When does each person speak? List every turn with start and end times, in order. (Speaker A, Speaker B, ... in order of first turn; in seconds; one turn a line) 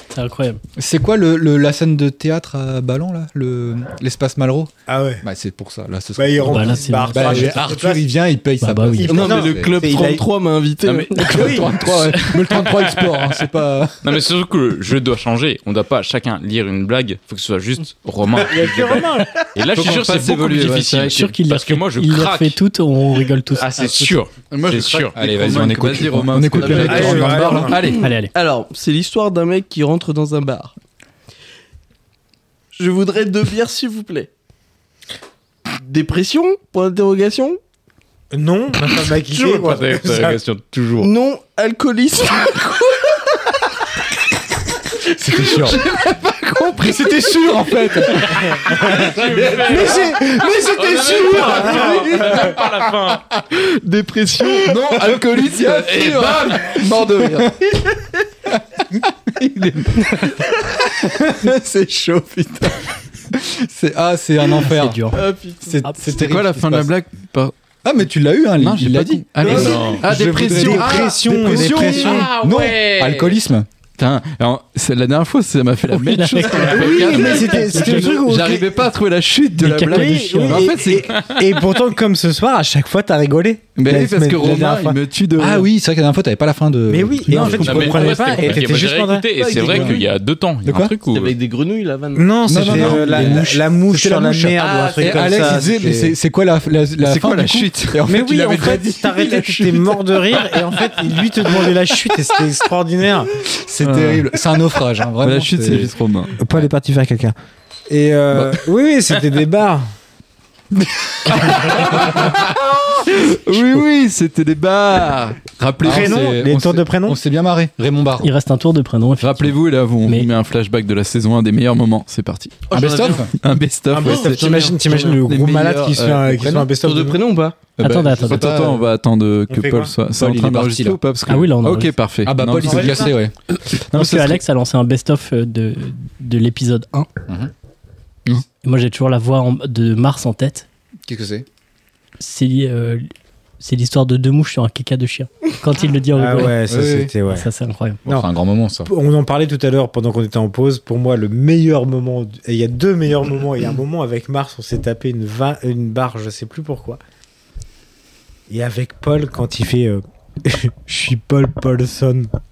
Speaker A: 0.1-0.6
Speaker B: 0.8-9.8
Speaker C: 4.9-5.2
Speaker C: 6.2-8.1
Speaker A: 6.5-7.5
Speaker A: 8.6-9.1
Speaker C: 9.0-10.2
Speaker D: 9.1-11.7
Speaker E: 10.8-13.4
Speaker B: 11.2-14.2
Speaker C: 11.2-11.7
Speaker E: 14.0-22.6
Speaker C: 18.3-19.5
Speaker F: 19.7-21.2
Speaker A: 20.9-24.2
Speaker E: 23.6-25.2
Speaker F: 24.5-28.1
Speaker B: 25.1-27.8
Speaker D: 26.6-27.2
Speaker C: 26.8-27.8
Speaker D: 27.7-30.7
Speaker A: 28.0-28.3
Speaker D: 32.7-34.3
Speaker D: 35.8-37.6
Speaker C: 38.3-40.4
Speaker E: 39.4-41.1
Speaker D: 41.0-43.2
Speaker B: 45.1-52.6
Speaker F: 46.0-46.7
Speaker E: 48.1-53.3
Speaker F: 51.4-51.8
Speaker B: 54.4-56.4
Speaker F: 54.5-57.5
Speaker E: 55.6-56.8
Speaker B: 57.3-57.7
Speaker F: 59.4-60.2
Speaker B: 60.0-65.0
Speaker A: 64.6-65.2
Speaker D: 65.1-65.9
Speaker B: 65.6-66.9
Speaker F: 66.0-67.5
Speaker B: 67.8-73.7
Speaker F: 68.6-72.2
Speaker C: 69.4-72.3
Speaker E: 69.4-70.0
Speaker E: 71.5-73.4
Speaker F: 74.0-81.1
Speaker A: 75.9-78.2
Speaker C: 76.6-78.8
Speaker C: 79.6-85.0
Speaker A: 79.6-80.7
Speaker E: 81.1-81.5
Speaker F: 83.8-85.7
Speaker B: 85.3-88.8
Speaker C: 86.9-89.9
Speaker F: 87.3-88.0
Speaker E: 87.3-91.3
Speaker D: 89.3-90.0
Speaker B: 89.6-90.0
Speaker B: 90.6-91.0
Speaker D: 91.1-92.4
Speaker C: 92.1-96.1
Speaker B: 92.5-100.4
Speaker F: 92.7-93.2
Speaker E: 92.7-93.2
Speaker D: 94.6-95.9
Speaker F: 97.0-98.0
Speaker C: 98.0-103.3
Speaker B: 103.5-105.9
Speaker F: 103.8-104.3
Speaker F: 105.2-106.4
Speaker C: 106.4-107.3
Speaker C: 107.9-109.8
Speaker F: 111.3-116.3
Speaker B: 111.8-112.3
Speaker C: 115.8-117.2
Speaker B: 115.8-118.3
Speaker A: 118.2-120.3
Speaker F: 119.2-126.5
Speaker D: 122.7-123.2
Speaker B: 122.7-123.3
Speaker C: 123.9-127.2
Speaker D: 124.0-125.2
Speaker B: 126.3-126.7
Speaker D: 126.7-127.6
Speaker B: 127.8-128.9
Speaker A: 127.8-128.5
Speaker F: 127.8-133.1
Speaker C: 129.5-129.9
Speaker B: 130.1-131.0
Speaker A: 131.3-131.9
Speaker B: 132.2-133.3
Speaker C: 132.6-133.2
Speaker A: 133.9-137.1
Speaker F: 133.9-134.4
Speaker A: 138.6-140.7
Speaker B: 141.1-141.4
Speaker A: 142.2-143.1
Speaker A: 143.6-146.6
Speaker C: 146.1-147.5
Speaker B: 146.7-147.1
Speaker A: 147.3-148.0
Speaker B: 148.1-148.9
Speaker C: 148.8-157.0
Speaker C: 158.5-162.3